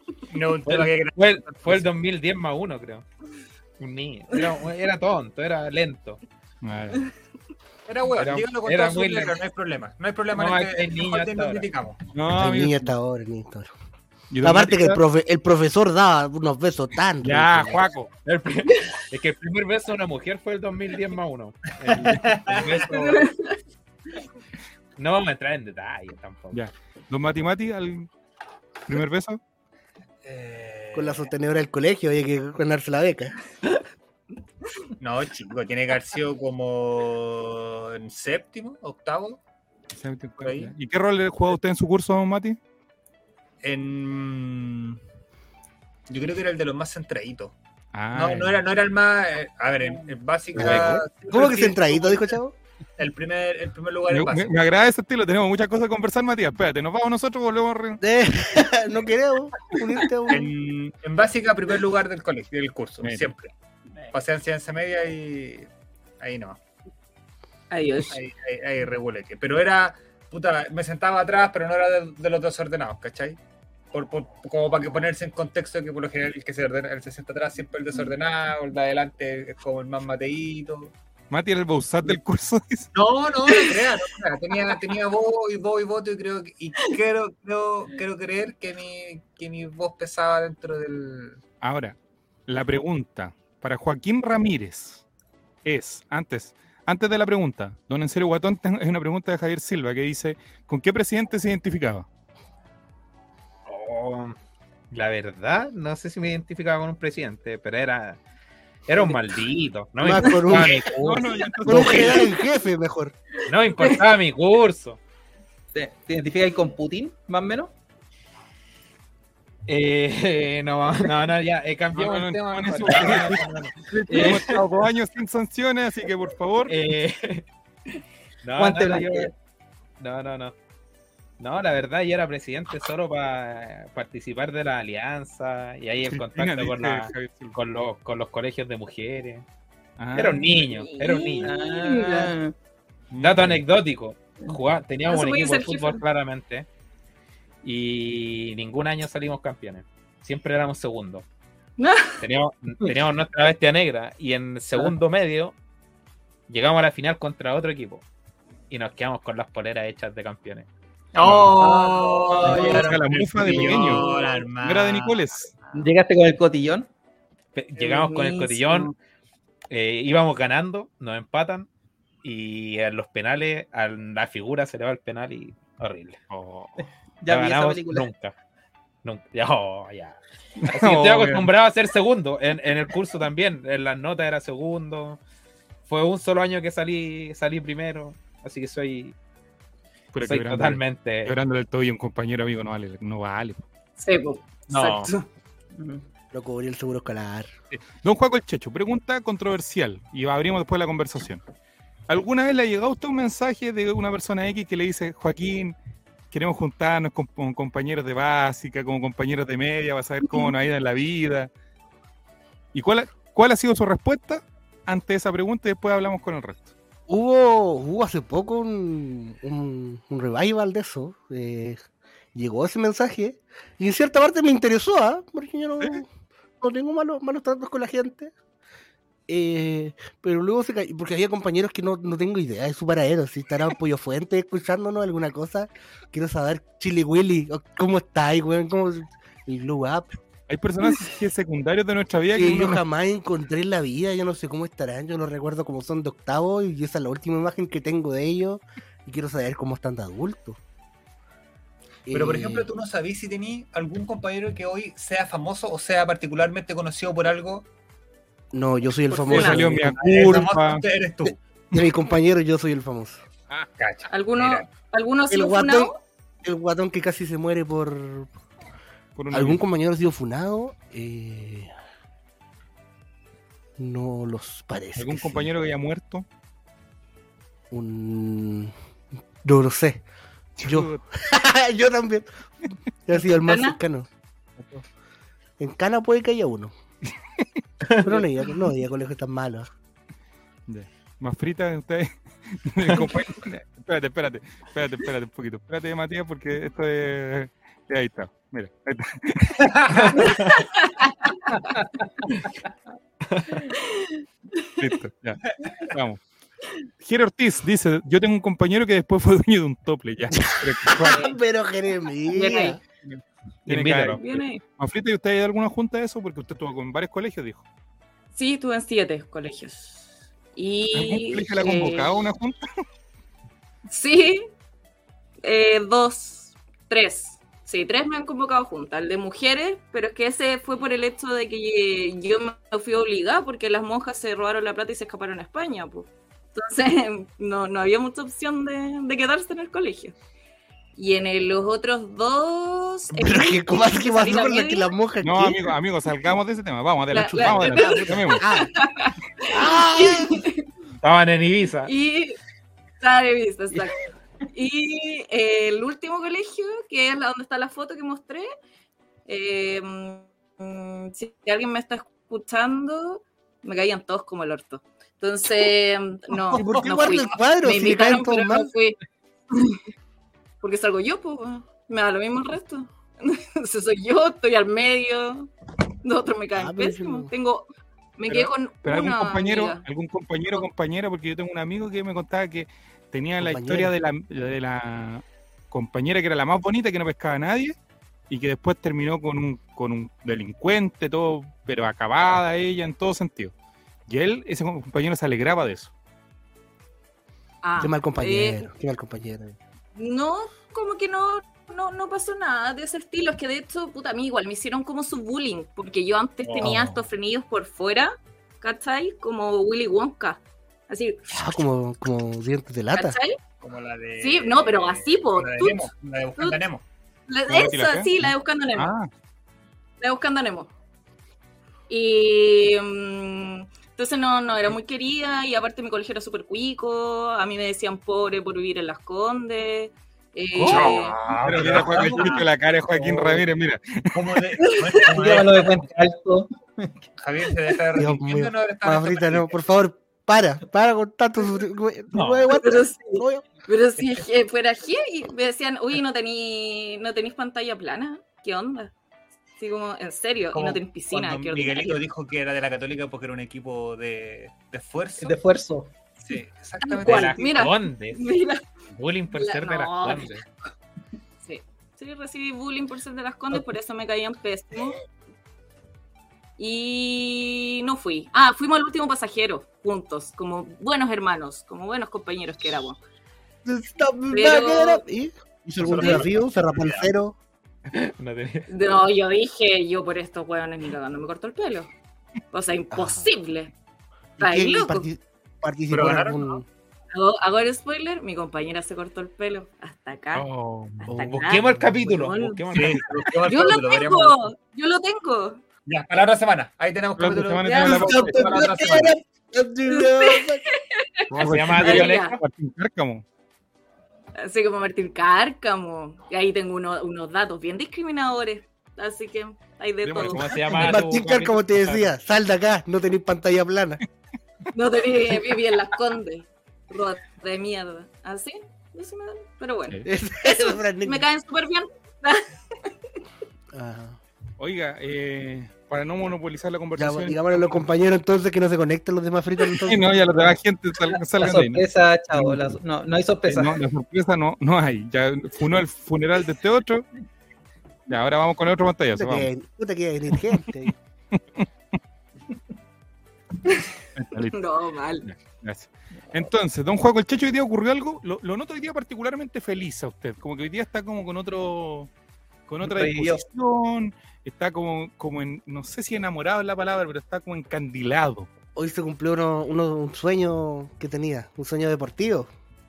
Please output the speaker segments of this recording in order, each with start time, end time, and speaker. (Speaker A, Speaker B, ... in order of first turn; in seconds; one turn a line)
Speaker A: 0.3-1.9
Speaker B: 0.7-3.0
Speaker B: 3.8-6.2
Speaker C: 6.6-7.0
Speaker A: 7.9-12.0
Speaker B: 8.2-9.4
Speaker B: 10.3-11.7
Speaker C: 12.1-12.9
Speaker D: 12.3-13.7
Speaker C: 14.3-15.0
Speaker D: 14.4-17.8
Speaker C: 17.2-18.1
Speaker B: 18.2-23.3
Speaker A: 21.9-22.9
Speaker E: 22.9-23.5
Speaker B: 24.9-26.6
Speaker C: 26.5-28.1
Speaker C: 28.9-29.4
Speaker A: 30.2-31.3
Speaker D: 30.9-33.4
Speaker A: 35.0-39.4
Speaker C: 40.0-42.6
Speaker A: 40.4-40.7
Speaker A: 43.6-45.0
Speaker A: 46.1-47.5
Speaker C: 47.9-48.6
Speaker A: 48.1-52.4
Speaker B: 50.5-51.0
Speaker C: 50.6-50.9
Speaker D: 50.6-52.5
Speaker A: 53.0-54.5
Speaker C: 54.1-58.0
Speaker D: 58.0-60.5
Speaker A: 60.3-63.5
Speaker C: 63.0-63.3
Speaker A: 64.1-65.7
Speaker A: 66.2-66.6
Speaker E: 67.7-68.2
Speaker A: 68.1-73.4
Speaker A: 73.9-80.9
Speaker C: 81.3-82.9
Speaker A: 82.9-91.4
Speaker C: 91.6-92.0
Speaker C: 92.5-95.0
Speaker C: 95.6-102.0
Speaker B: 103.7-104.4
Speaker B: 104.9-108.2
Speaker B: 108.9-112.1
Speaker D: 110.0-110.9
Speaker C: 110.9-112.3
Speaker D: 111.6-113.1
Speaker B: 113.5-115.0
Speaker F: 115.7-117.7
Speaker B: 119.7-124.6
Speaker C: 121.9-126.8
Speaker B: 126.7-127.5
Speaker B: 128.4-129.3
Speaker F: 128.6-129.3
Speaker B: 130.0-130.5
Speaker B: 131.4-139.4
Speaker C: 136.0-137.6
Speaker C: 140.0-140.5
Speaker B: 140.1-141.5
Speaker E: 140.6-142.3
Speaker F: 141.4-142.5
Speaker C: 143.1-143.6
Speaker B: 143.2-146.7
Speaker E: 145.1-146.0
Speaker B: 147.6-151.2
Speaker E: 151.8-152.2
Speaker B: 152.2-155.5
Speaker B: 156.5-158.0
Speaker B: 158.7-160.7
Speaker A: 161.1-165.2
Speaker C: 161.2-161.5
Speaker F: 161.5-164.0
Speaker C: 162.4-164.1
Speaker C: 164.6-165.5
Speaker F: 165.7-166.9
Speaker B: 167.5-168.9
Speaker E: 167.8-168.9
Speaker B: 169.7-171.7
Speaker B: 172.2-176.2
Speaker C: 176.3-176.8
Speaker F: 176.8-178.1
Speaker B: 177.3-178.3
Speaker B: 179.0-185.2
Speaker C: 180.7-181.5
Speaker B: 185.9-189.1
Speaker C: 190.1-193.6
Speaker B: 190.2-191.3
Speaker E: 194.0-195.3
Speaker F: 195.7-196.0
Speaker D: 196.3-197.5
Speaker C: 197.7-201.4
Speaker C: 202.1-205.8
Speaker C: 206.3-211.5
Speaker C: 212.7-216.7
Speaker D: 217.1-221.8
Speaker D: 222.3-226.1
Speaker D: 226.6-228.3
Speaker D: 229.3-240.1
Speaker C: 240.5-242.8
Speaker D: 242.3-250.6
Speaker D: 252.1-252.7
Speaker A: 252.1-257.6
Speaker D: 258.5-260.0
Speaker C: 259.2-260.8
Speaker E: 259.3-259.6
Speaker A: 259.9-261.4
Speaker D: 261.7-263.2
Speaker A: 263.8-264.7
Speaker E: 264.1-266.0
Speaker D: 265.3-268.3
Speaker C: 269.1-269.6
Speaker D: 269.3-271.7
Speaker D: 273.8-275.5
Speaker C: 274.9-276.2
Speaker D: 277.7-278.7
Speaker D: 279.4-280.0
Speaker C: 280.6-281.0
Speaker D: 280.6-282.3
Speaker D: 283.1-284.1
Speaker E: 283.4-283.8
Speaker D: 285.6-286.7
Speaker D: 288.0-289.7
Speaker C: 290.7-300.2
Speaker A: 299.6-300.1
Speaker B: 299.9-300.6
Speaker E: 300.7-301.7
Speaker B: 303.3-303.6
Speaker E: 303.7-304.9
Speaker C: 304.8-306.2
Speaker C: 307.0-311.3
Speaker D: 310.4-312.8
Speaker E: 311.0-311.3
Speaker E: 312.3-312.8
Speaker C: 313.0-317.6
Speaker B: 313.7-314.2
Speaker E: 314.1-314.6
Speaker E: 318.3-322.2
Speaker C: 320.9-322.7
Speaker E: 323.9-324.4
Speaker E: 325.4-340.1
Speaker E: 340.9-344.9
Speaker D: 343.1-345.8
Speaker C: 345.2-348.4
Speaker E: 347.1-350.7
Speaker D: 347.3-348.7
Speaker D: 349.5-350.4
Speaker B: 351.0-351.9
Speaker E: 351.8-352.4
Speaker E: 353.0-358.5
Speaker E: 359.3-369.0
Speaker A: 366.5-367.1
Speaker D: 366.5-368.7
Speaker E: 369.5-369.8
Speaker E: 370.6-375.5
Speaker E: 376.0-379.8
Speaker D: 376.5-377.3
Speaker C: 378.3-387.8
Speaker D: 383.4-383.9
Speaker C: 388.3-393.5
Speaker C: 394.1-395.9
Speaker E: 397.6-398.7
Speaker D: 397.8-399.6
Speaker E: 399.9-411.2
Speaker C: 406.6-407.0
Speaker D: 411.3-413.2
Speaker E: 412.9-413.4
Speaker A: 413.6-416.8
Speaker E: 414.2-416.6
Speaker E: 417.3-418.9
Speaker C: 417.5-419.1
Speaker E: 420.0-420.7
Speaker E: 421.9-431.2
Speaker B: 430.5-431.8
Speaker A: 430.6-432.5
Speaker C: 431.3-434.2
Speaker A: 434.1-435.7
Speaker F: 434.9-437.1
Speaker A: 437.2-439.5
Speaker D: 437.9-443.4
Speaker B: 442.1-442.5
Speaker E: 442.5-448.9
Speaker A: 444.0-444.2
Speaker E: 449.6-452.0
Speaker A: 450.5-455.4
Speaker F: 455.2-455.9
Speaker A: 456.2-457.4
Speaker E: 456.8-458.6
Speaker B: 457.0-458.3
Speaker B: 458.9-460.4
Speaker E: 459.3-460.4
Speaker E: 461.4-464.9
Speaker E: 466.6-473.0
Speaker D: 473.6-477.4
Speaker E: 474.3-475.0
Speaker A: 475.8-477.1
Speaker E: 475.9-476.2
Speaker B: 477.9-478.7
Speaker E: 478.7-481.9
Speaker E: 482.5-483.7
Speaker D: 482.9-483.3
Speaker D: 484.4-486.6
Speaker E: 484.4-485.1
Speaker A: 485.9-486.4
Speaker E: 487.1-490.5
Speaker C: 490.4-491.1
Speaker E: 491.0-495.6
Speaker D: 491.1-491.6
Speaker B: 491.2-493.3
Speaker A: 492.7-494.5
Speaker A: 495.9-499.1
Speaker C: 497.2-498.6
Speaker E: 497.6-498.1
Speaker D: 497.8-500.6
Speaker E: 499.9-502.4
Speaker C: 501.3-503.2
Speaker B: 501.3-502.4
Speaker E: 504.4-510.8
Speaker C: 510.0-510.9
Speaker B: 510.1-512.1
Speaker D: 510.7-514.0
Speaker E: 514.7-522.9
Speaker D: 520.0-521.2
Speaker D: 523.7-524.2
Speaker C: 524.6-527.8
Speaker D: 527.0-530.0
Speaker C: 529.8-532.7
Speaker F: 531.1-533.8
Speaker C: 533.5-537.1
Speaker C: 538.1-539.5
Speaker D: 539.1-540.9
Speaker C: 541.3-541.6
Speaker C: 544.1-544.5
Speaker E: 544.4-545.3
Speaker C: 545.2-552.1
Speaker C: 552.7-558.5
Speaker F: 552.8-553.4
Speaker D: 558.7-562.5